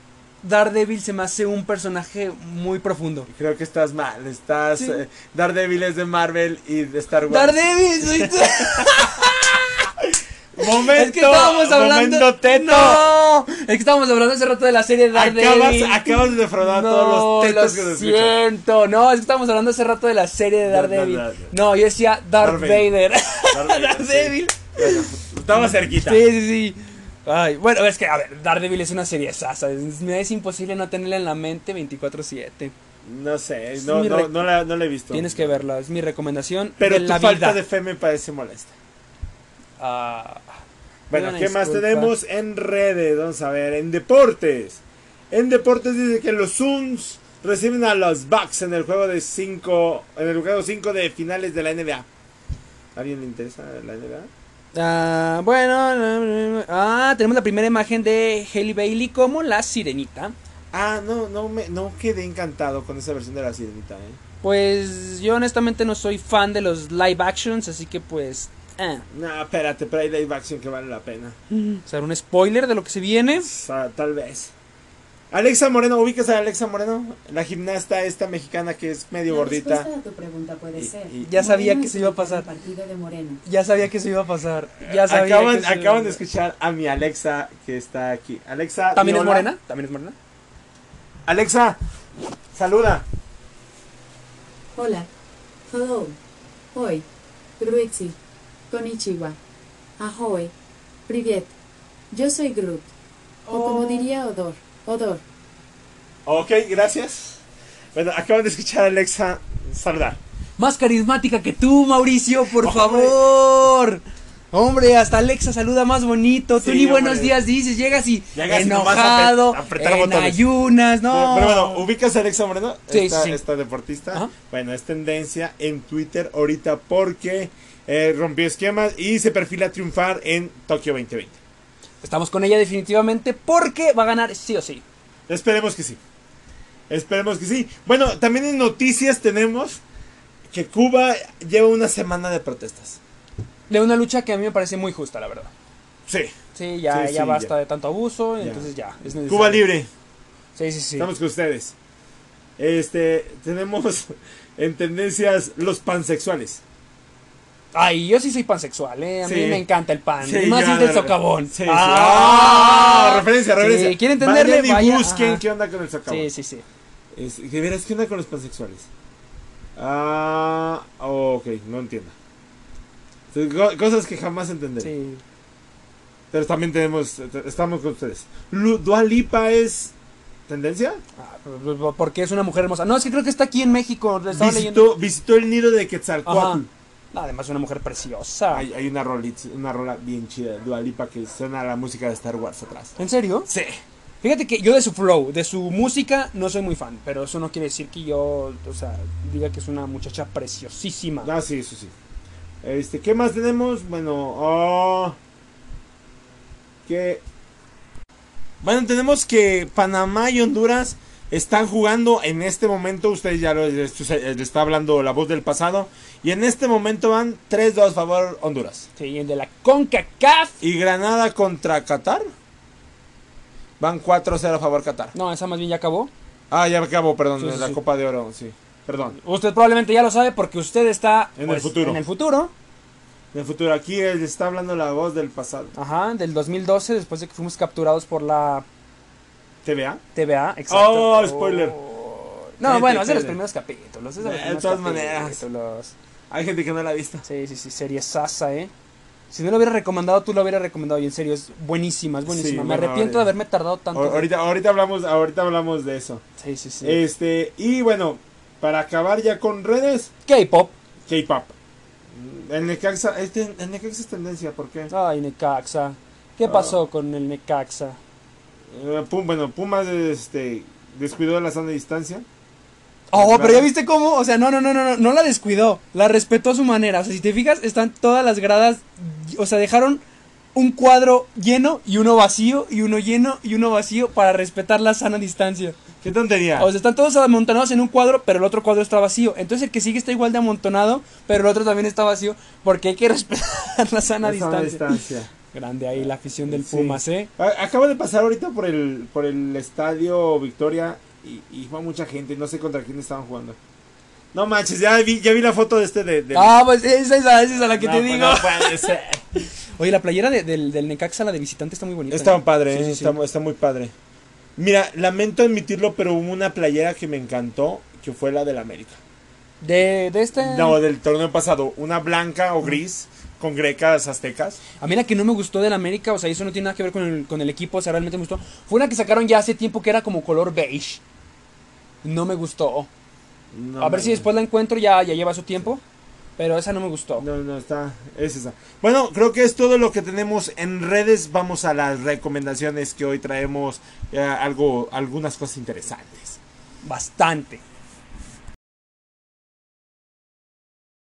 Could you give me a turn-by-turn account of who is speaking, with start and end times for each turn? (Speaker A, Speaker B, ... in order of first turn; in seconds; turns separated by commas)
Speaker A: 0.4-3.3, Speaker B: 3.3-9.3, Speaker A: 4.8-5.0, Speaker A: 7.3-9.8, Speaker B: 10.0-13.0, Speaker A: 10.6-32.7, Speaker B: 15.1-18.4, Speaker B: 20.6-21.5, Speaker B: 22.4-22.9, Speaker B: 23.5-26.2, Speaker B: 33.0-35.6, Speaker A: 33.8-34.5, Speaker A: 35.1-37.6, Speaker B: 36.8-38.7, Speaker A: 39.8-40.6, Speaker B: 41.1-52.1, Speaker A: 41.1-42.1, Speaker B: 52.9-54.3, Speaker A: 54.7-60.3, Speaker B: 60.7-64.2, Speaker A: 64.4-69.0, Speaker B: 69.1-71.4, Speaker A: 71.5-73.5, Speaker B: 73.4-74.5, Speaker B: 75.3-79.9, Speaker C: 79.3-83.4, Speaker B: 80.7-81.3, Speaker A: 81.2-82.5, Speaker A: 83.4-86.2, Speaker B: 84.8-89.5, Speaker A: 88.9-90.2, Speaker B: 91.3-91.8, Speaker B: 92.5-93.0, Speaker C: 94.7-95.1, Speaker C: 95.7-96.2, Speaker C: 96.7-97.0, Speaker C: 97.6-98.2, Speaker C: 98.7-99.4, Speaker C: 100.0-100.5, Speaker C: 101.1-101.5, Speaker C: 102.1-102.9, Speaker A: 103.4-104.1, Speaker C: 103.5-105.2, Speaker B: 106.2-107.4, Speaker B: 107.9-110.2, Speaker A: 110.6-121.9, Speaker B: 112.6-113.2, Speaker B: 116.6-117.4, Speaker B: 118.3-120.4, Speaker B: 121.1-131.4, Speaker A: 122.9-123.4, Speaker A: 132.0-134.8, Speaker B: 135.3-136.0, Speaker B: 136.9-139.8, Speaker B: 140.5-143.0, Speaker A: 143.7-145.5, Speaker B: 146.1-146.3, Speaker A: 146.5-149.7, Speaker B: 146.9-147.5, Speaker B: 148.4-148.7, Speaker B: 149.3-149.9, Speaker A: 150.5-151.1, Speaker B: 151.0-151.7, Speaker B: 152.6-156.6, Speaker A: 157.7-165.4, Speaker B: 159.2-159.6, Speaker B: 160.2-166.3, Speaker A: 166.1-166.6, Speaker B: 167.1-168.9, Speaker B: 169.8-172.1, Speaker B: 173.3-174.9, Speaker A: 174.8-175.2, Speaker B: 176.3-179.9, Speaker B: 180.5-181.0, Speaker A: 181.2-184.9, Speaker B: 184.3-186.7, Speaker A: 186.2-188.7, Speaker B: 188.5-193.8, Speaker A: 193.0-193.5, Speaker A: 194.2-201.3, Speaker B: 201.2-201.9, Speaker B: 202.6-205.2, Speaker B: 206.8-207.2, Speaker B: 208.6-218.9, Speaker A: 219.0-220.6, Speaker B: 220.6-222.3, Speaker B: 223.8-225.1, Speaker A: 225.1-226.1, Speaker B: 226.5-229.2, Speaker A: 227.4-227.8, Speaker A: 229.2-232.5, Speaker B: 231.4-232.0, Speaker B: 233.3-235.7, Speaker A: 235.7-238.7, Speaker B: 239.6-240.0, Speaker A: 240.1-245.9, Speaker B: 240.7-241.8, Speaker B: 242.6-243.4, Speaker B: 244.2-245.4, Speaker B: 246.3-247.2, Speaker A: 247.2-248.7, Speaker A: 249.3-254.3, Speaker B: 252.2-253.3, Speaker B: 253.9-256.2, Speaker A: 256.4-257.0, Speaker B: 256.8-260.1, Speaker A: 260.2-260.7, Speaker B: 261.1-261.5, Speaker B: 262.1-264.9, Speaker A: 264.9-268.0, Speaker B: 266.4-266.8, Speaker B: 268.7-272.2, Speaker A: 273.1-280.0, Speaker B: 273.1-273.7, Speaker A: 280.5-285.8, Speaker B: 286.0-286.7, Speaker A: 286.5-297.3, Speaker B: 294.2-295.3, Speaker B: 295.9-303.6, Speaker B: 304.3-306.6, Speaker A: 306.3-313.2, Speaker B: 307.7-309.2, Speaker B: 312.1-313.9, Speaker B: 314.6-319.0, Speaker A: 319.6-320.8, Speaker B: 320.4-324.6, Speaker A: 324.8-331.0, Speaker A: 332.0-332.9, Speaker B: 333.5-334.3, Speaker A: 333.8-335.8, Speaker A: 336.4-337.2, Speaker B: 337.2-346.4, Speaker A: 346.8-347.6